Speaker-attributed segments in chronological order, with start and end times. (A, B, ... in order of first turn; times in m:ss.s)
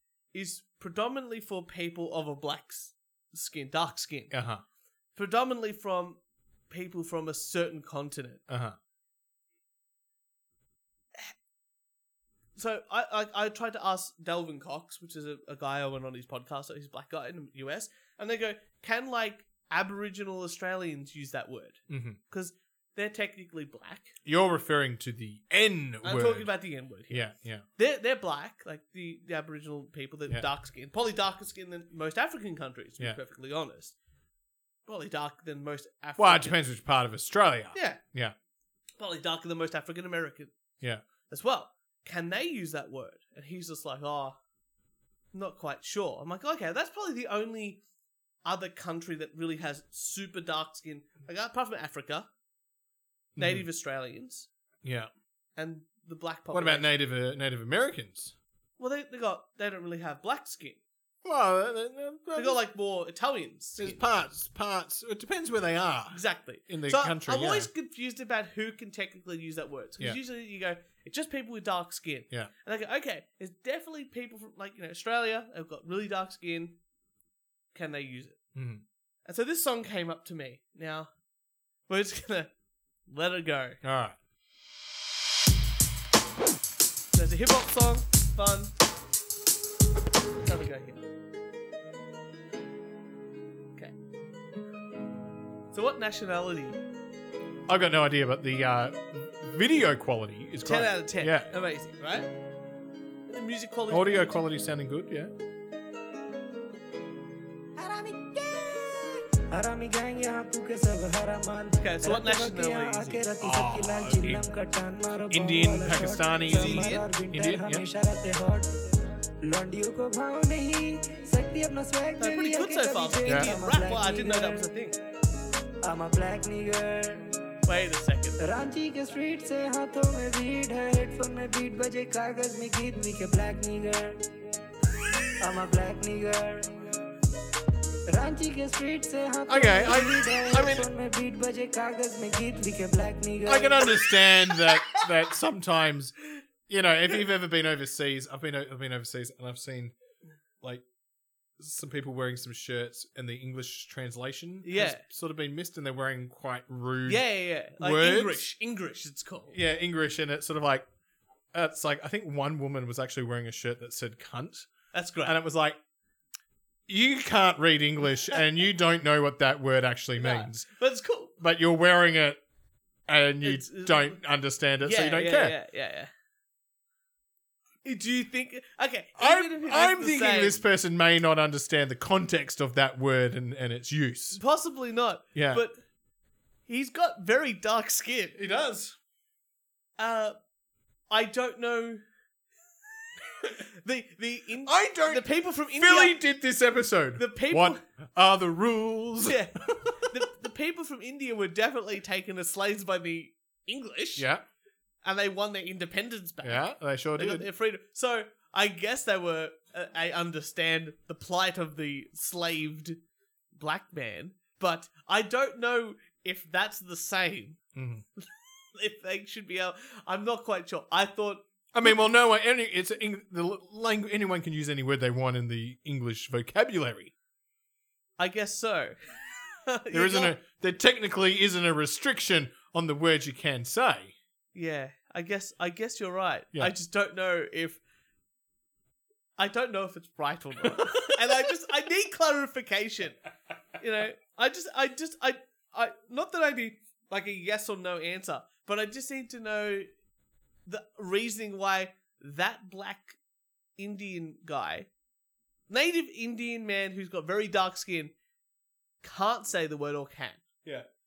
0:00.3-0:04.3 A
0:04.3-0:04.6 B
0:05.1-0:06.2 A
0:06.7-0:08.4 A
0:08.5-0:08.8 B
0:12.6-0:24.1 A
0:21.9-0:22.2 B
0:24.2-0:26.5 B
0:26.0-0:33.9 A
0:27.1-0:27.6 B
0:34.8-0:36.6 A
0:36.2-0:38.3 B
0:37.7-0:38.0 A
0:39.0-0:40.5 A
0:41.3-0:44.4 A
0:45.3-0:47.8 A
0:48.4-0:52.3 A
0:53.4-0:53.6 B
0:53.4-0:54.5 A
0:54.8-0:55.1 B
0:55.6-0:56.9 A
0:56.5-0:58.3 B
0:58.8-1:00.8 A
1:01.2-1:02.6 B
1:02.4-1:04.0 A
1:03.8-1:07.7 B
1:06.1-1:16.8 A
1:17.7-1:18.4 A
1:18.5-1:18.8 B
1:19.2-1:21.1 A
1:21.9-1:22.5 A
1:23.1-1:23.8 A
1:23.8-1:24.2 B
1:27.1-1:28.7 A
1:30.4-1:31.0 A
1:35.7-1:36.8 A
1:37.7-1:41.5 B
1:40.6-1:42.3 A
1:43.3-1:44.4 A
1:43.9-1:45.3 B
1:47.8-1:58.7 C
1:51.8-1:53.2 A
1:53.4-1:54.4 B
1:55.3-1:57.8 B
1:56.5-1:57.0 A
1:59.4-2:04.6 C
2:02.2-2:05.0 A
2:03.3-2:03.5 B
2:05.8-2:07.2 C
2:07.6-2:08.4 A
2:08.4-2:14.2 C
2:15.4-2:16.7 C
2:18.1-2:24.0 C
2:19.5-2:20.9 B
2:23.4-2:26.2 B
2:26.7-2:29.9 B
2:31.6-2:37.2 B
2:34.6-2:35.0 A
2:37.0-2:39.5 A
2:37.8-2:38.4 B
2:39.5-2:40.8 B
2:41.5-2:44.7 B
2:44.9-2:45.4 A
2:45.2-2:45.8 B
2:46.9-2:50.7 B
2:50.2-2:51.3 A
2:51.4-2:52.4 B
2:53.1-2:55.6 B
2:53.4-2:54.2 A
2:54.8-2:56.1 A
2:57.8-3:00.6 A
2:59.2-3:04.4 B
3:04.3-3:05.7 A
3:05.3-3:05.6 B
3:06.7-3:08.4 A
3:08.4-3:08.9 B
3:10.0-3:10.4 A
3:11.1-3:12.0 A
3:13.4-3:16.2 A
3:14.6-3:20.0 B
3:17.2-3:17.8 A
3:19.2-3:24.3 A
3:24.2-3:24.4 B
3:25.0-3:33.0 A
3:26.4-3:27.5 B
3:33.6-3:37.6 A
3:37.7-3:38.0 B
3:38.2-3:42.0 A
3:41.7-3:47.1 B
3:48.2-3:48.9 A
3:49.6-3:50.4 A
3:49.9-3:54.1 B
3:54.5-3:57.8 A
3:59.4-4:03.2 A
4:03.8-4:09.9 A
4:10.6-4:13.2 A
4:13.8-4:14.9 A
4:15.7-4:18.1 A
4:19.0-4:20.4 A